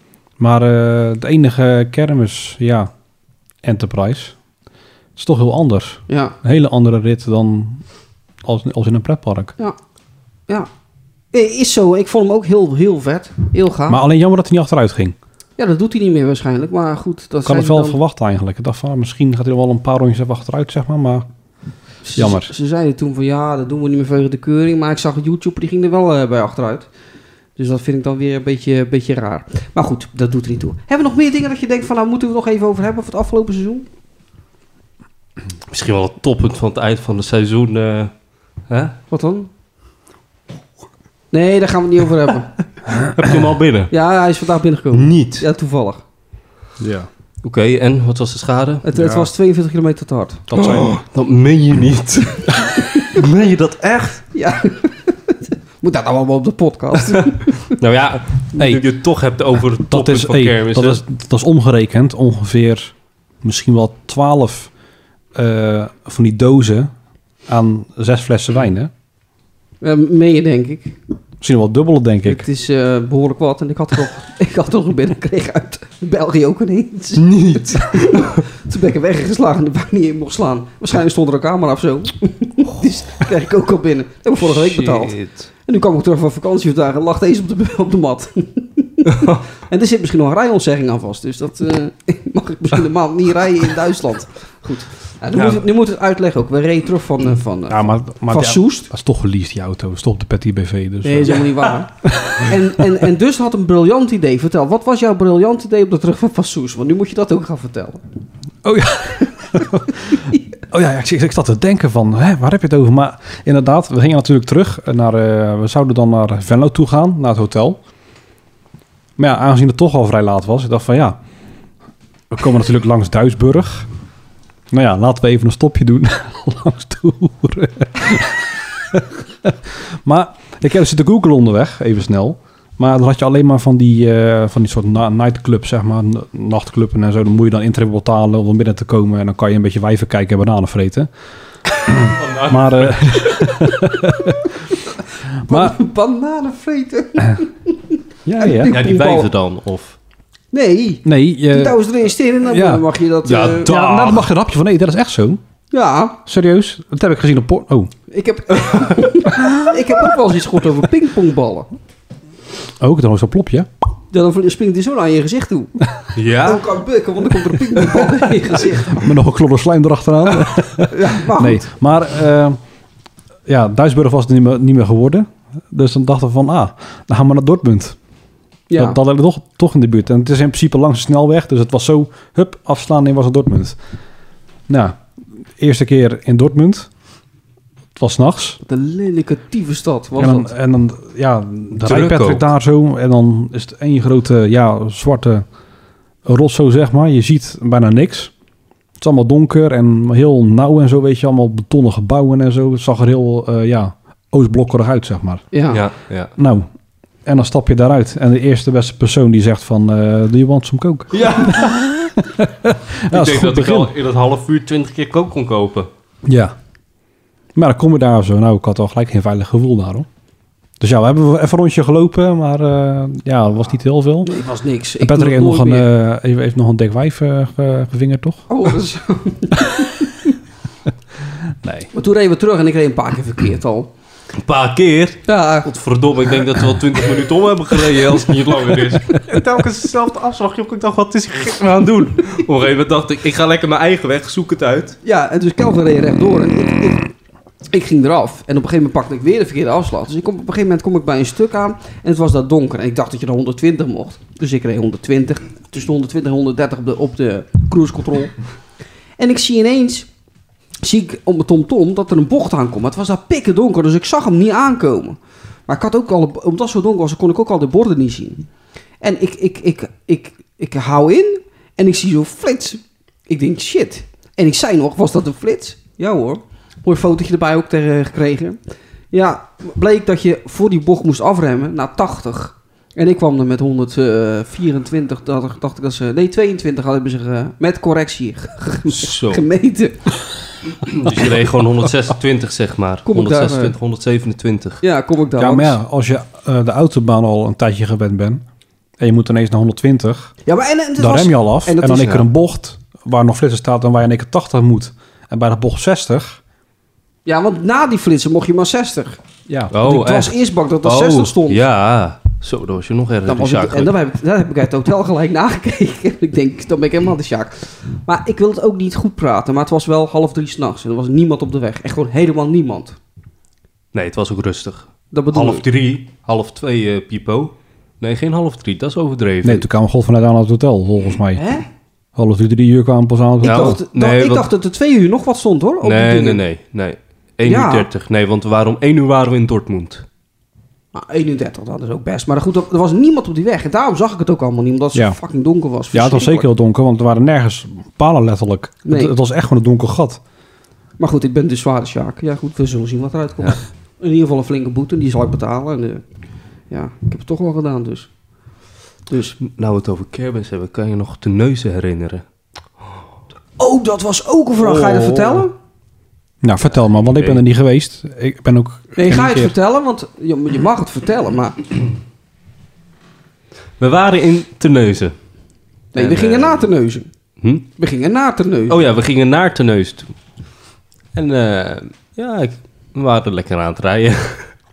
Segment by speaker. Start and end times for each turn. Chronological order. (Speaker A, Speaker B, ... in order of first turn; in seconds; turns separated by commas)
Speaker A: 0.4-2.9, Speaker A: 3.6-4.3, Speaker A: 5.2-7.8, Speaker B: 6.1-6.3, Speaker A: 8.4-9.5, Speaker B: 11.3-14.0, Speaker A: 13.9-15.2, Speaker B: 15.6-18.0, Speaker A: 17.4-21.3, Speaker B: 22.0-26.9, Speaker A: 22.1-22.5, Speaker B: 27.6-33.9, Speaker C: 35.7-38.1, Speaker C: 38.7-39.0, Speaker B: 39.1-39.5, Speaker B: 41.3-42.5, Speaker C: 43.0-43.9, Speaker B: 43.9-46.0, Speaker C: 44.9-45.5, Speaker A: 46.8-47.1, Speaker C: 47.4-48.9, Speaker B: 48.8-50.4, Speaker A: 49.0-49.3, Speaker A: 50.5-50.9, Speaker C: 50.5-54.2, Speaker B: 54.3-57.6, Speaker C: 57.1-61.0, Speaker A: 59.9-64.7, Speaker A: 65.3-66.9, Speaker A: 67.5-68.9, Speaker B: 69.8-71.0, Speaker A: 71.4-72.4, Speaker B: 72.2-85.2, Speaker C: 77.2-78.4, Speaker C: 84.4-85.5, Speaker B: 85.7-98.9, Speaker C: 89.1-89.4, Speaker C: 95.3-95.7, Speaker A: 97.7-102.5, Speaker B: 101.0-108.0, Speaker A: 108.6-117.8, Speaker A: 119.2-121.2, Speaker A: 122.3-123.9, Speaker A: 124.7-141.1, Speaker C: 141.8-143.5, Speaker A: 141.9-144.5, Speaker A: 145.4-145.8, Speaker B: 145.4-149.3, Speaker A: 148.2-148.8, Speaker C: 148.7-150.0, Speaker B: 150.5-153.7, Speaker A: 151.0-152.8, Speaker C: 153.2-154.3, Speaker A: 153.6-155.4, Speaker B: 155.7-156.2, Speaker A: 156.2-157.9, Speaker B: 158.1-161.7, Speaker A: 162.8-163.7, Speaker B: 164.1-165.7, Speaker C: 166.1-166.7, Speaker B: 166.4-169.1, Speaker A: 168.9-172.6, Speaker B: 170.9-171.7, Speaker A: 173.4-178.0, Speaker B: 178.7-179.0, Speaker A: 178.8-183.8, Speaker A: 184.7-185.0, Speaker A: 185.6-186.9, Speaker A: 187.9-188.6, Speaker B: 188.6-190.5, Speaker A: 190.2-195.4, Speaker C: 191.8-192.5, Speaker A: 196.2-198.3, Speaker A: 199.0-205.5, Speaker B: 205.5-205.8, Speaker C: 205.7-206.3, Speaker A: 206.4-206.7, Speaker A: 207.2-213.9, Speaker C: 211.1-211.8, Speaker C: 213.1-215.9, Speaker A: 216.2-216.5, Speaker A: 217.5-220.1, Speaker A: 220.8-224.4, Speaker B: 224.2-225.9, Speaker A: 225.0-228.4, Speaker B: 228.5-230.2, Speaker A: 229.6-229.8, Speaker A: 231.6-231.9, Speaker B: 231.9-233.9, Speaker C: 234.4-245.0, Speaker B: 235.3-235.7, Speaker B: 245.0-247.1, Speaker B: 247.7-258.3, Speaker B: 259.2-260.1, Speaker B: 260.8-268.4, Speaker B: 269.0-278.6, Speaker B: 279.1-290.1, Speaker C: 288.9-289.4, Speaker C: 290.8-294.8, Speaker B: 293.1-293.7, Speaker B: 294.8-295.8, Speaker A: 295.4-298.4, Speaker A: 299.0-300.3, Speaker B: 300.4-302.2, Speaker A: 301.0-306.4, Speaker B: 307.2-309.2, Speaker A: 309.5-309.7, Speaker C: 309.7-313.9, Speaker B: 309.8-311.6, Speaker B: 313.2-323.0, Speaker C: 323.9-329.6, Speaker B: 325.1-325.6, Speaker A: 329.4-331.4, Speaker B: 331.3-331.6, Speaker A: 332.1-333.8, Speaker B: 333.4-336.4, Speaker C: 333.4-334.5, Speaker C: 335.8-340.0, Speaker B: 337.4-337.9, Speaker B: 340.9-346.5, Speaker A: 345.9-350.2, Speaker B: 348.9-349.1, Speaker B: 351.0-356.0, Speaker B: 356.7-358.1, Speaker B: 359.1-359.4, Speaker C: 359.4-362.2, Speaker B: 363.6-365.5, Speaker C: 364.6-365.5, Speaker A: 366.4-369.5, Speaker C: 367.0-367.4, Speaker B: 368.9-371.6, Speaker C: 373.8-375.1, Speaker B: 375.9-377.1, Speaker C: 375.9-376.7, Speaker B: 377.8-378.8, Speaker C: 378.7-380.1, Speaker C: 381.1-384.5